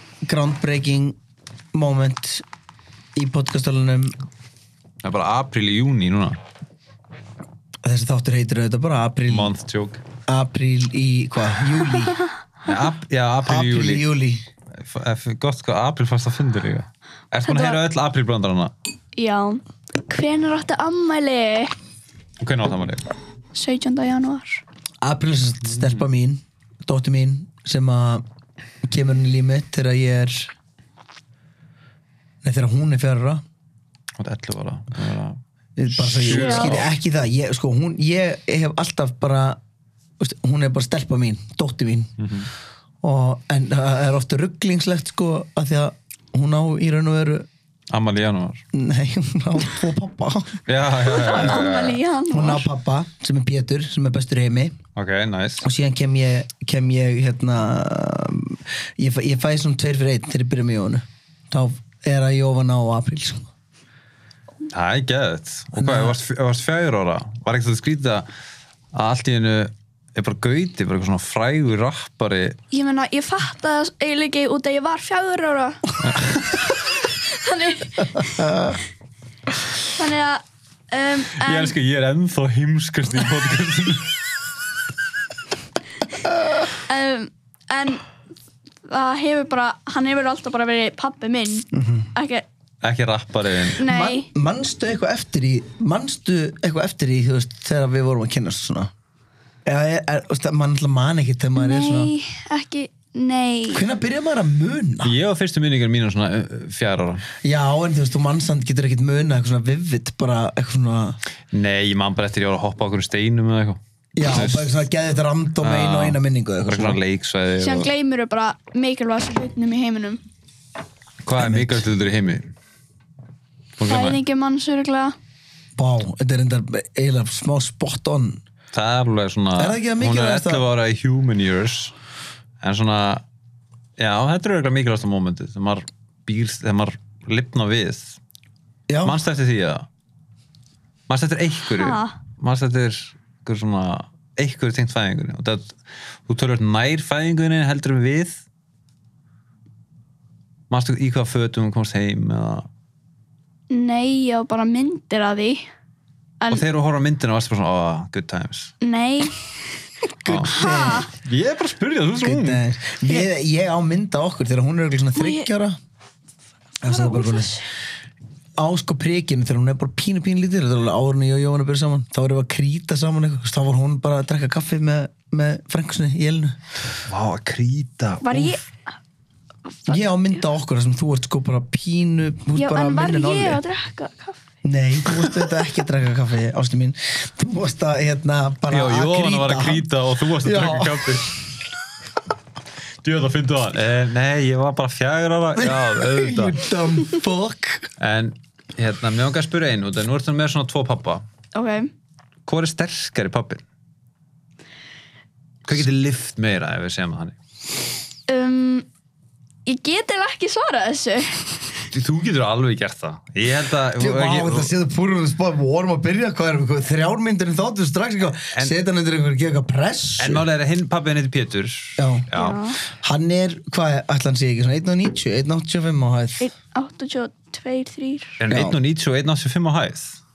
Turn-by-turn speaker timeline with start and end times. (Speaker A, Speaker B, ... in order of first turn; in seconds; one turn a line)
Speaker A: 0.2-1.2
Speaker A: 1.7-2.4
Speaker A: 3.1-4.1
Speaker B: 5.0-6.4
Speaker A: 7.8-9.5
Speaker B: 9.3-10.0
Speaker A: 10.3-12.2
Speaker B: 12.6-14.1
Speaker A: 13.4-14.4
Speaker B: 14.8-18.7
Speaker C: 17.4-17.8
Speaker C: 19.1-21.7
Speaker B: 22.4-23.1
Speaker C: 23.5-24.6
Speaker A: 25.0-28.2
Speaker B: 25.7-26.0
Speaker A: 28.8-30.5
Speaker A: 32.4-33.4
Speaker B: 34.2-36.9
Speaker A: 35.8-39.6
Speaker C: 36.3-36.7
Speaker A: 40.2-42.1
Speaker B: 42.2-42.5
Speaker A: 43.0-47.5
Speaker B: 47.9-48.6
Speaker A: 48.7-50.6
Speaker B: 50.7-52.0
Speaker C: 51.1-52.7
Speaker A: 51.2-51.7
Speaker A: 52.3-54.8
Speaker B: 55.0-55.6
Speaker A: 55.6-63.5
Speaker B: 64.7-68.3
Speaker A: 65.8-66.2
Speaker B: 68.9-72.6
Speaker C: 72.7-76.0
Speaker B: 76.0-76.7
Speaker C: 76.5-78.8
Speaker C: 79.9-81.7
Speaker B: 81.4-84.1
Speaker C: 86.7-88.0
Speaker C: 88.8-92.5
Speaker A: 91.7-92.1
Speaker B: 92.8-93.8
Speaker A: 93.7-98.9
Speaker C: 93.8-94.3
Speaker A: 99.6-102.1
Speaker C: 101.5-103.8
Speaker A: 103.7-105.1
Speaker B: 105.0-107.2
Speaker A: 107.4-111.2
Speaker B: 111.5-114.8
Speaker A: 114.2-117.0
Speaker B: 115.6-117.9
Speaker C: 117.6-120.2
Speaker B: 121.2-122.5
Speaker A: 121.3-121.8
Speaker B: 123.8-124.2
Speaker C: 123.8-125.1
Speaker A: 125.8-128.4
Speaker B: 128.7-131.9
Speaker A: 129.6-130.6
Speaker B: 132.6-133.2
Speaker B: 134.0-138.2
Speaker A: 138.9-139.2
Speaker B: 139.0-139.8
Speaker B: 141.1-148.4
Speaker C: 141.8-142.2
Speaker B: 150.7-152.7
Speaker C: 153.7-155.7
Speaker B: 156.5-158.7
Speaker C: 158.8-159.4
Speaker A: 160.2-161.1
Speaker B: 160.2-162.6
Speaker C: 160.5-161.1
Speaker A: 162.2-165.8
Speaker C: 165.2-165.5
Speaker A: 166.8-167.6
Speaker C: 166.8-167.7
Speaker A: 168.6-176.6
Speaker B: 177.1-178.6
Speaker C: 178.2-178.6
Speaker C: 179.7-180.0
Speaker A: 179.9-183.6
Speaker C: 182.6-184.4
Speaker A: 184.6-189.9
Speaker B: 188.7-191.4
Speaker A: 190.4-191.1
Speaker B: 193.0-196.6
Speaker A: 195.6-197.9
Speaker B: 198.0-201.2
Speaker C: 201.5-201.9
Speaker B: 202.4-203.6
Speaker B: 205.7-207.3
Speaker C: 208.3-208.8
Speaker C: 209.6-211.7
Speaker B: 211.9-214.7
Speaker A: 214.0-220.4
Speaker B: 220.2-222.6
Speaker A: 222.0-222.3
Speaker C: 222.3-222.8
Speaker A: 222.9-226.5
Speaker C: 226.4-228.4
Speaker B: 228.4-230.2
Speaker A: 228.5-228.8